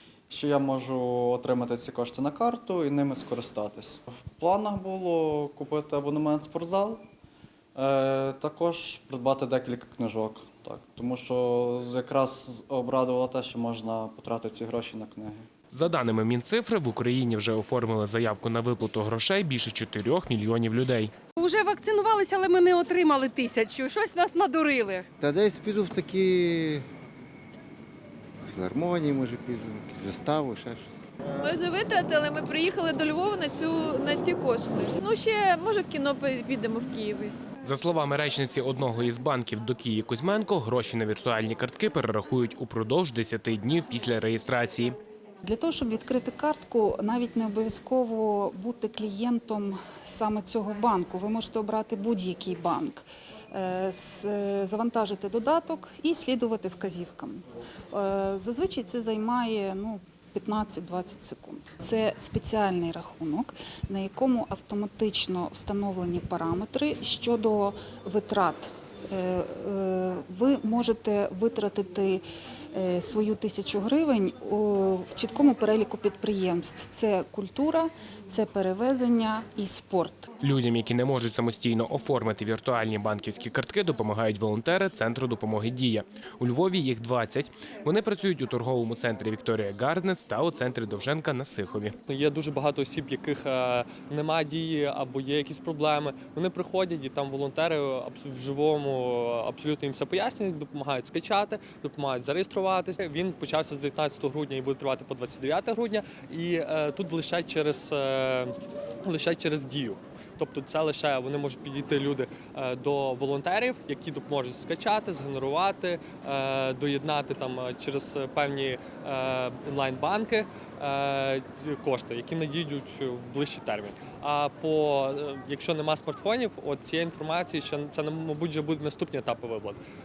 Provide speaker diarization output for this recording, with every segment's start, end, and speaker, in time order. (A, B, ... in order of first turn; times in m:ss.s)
0:00.3-0:07.0 A
0:07.8-0:15.4 A
0:15.7-0:21.1 B
0:21.4-0:25.1 C
0:25.2-0:26.9 D
0:28.5-0:30.8 D
0:31.3-0:37.4 E
0:37.6-0:45.0 B
0:45.4-1:12.2 F
1:12.7-1:20.3 F
1:20.4-1:32.0 B
1:32.1-2:09.8 G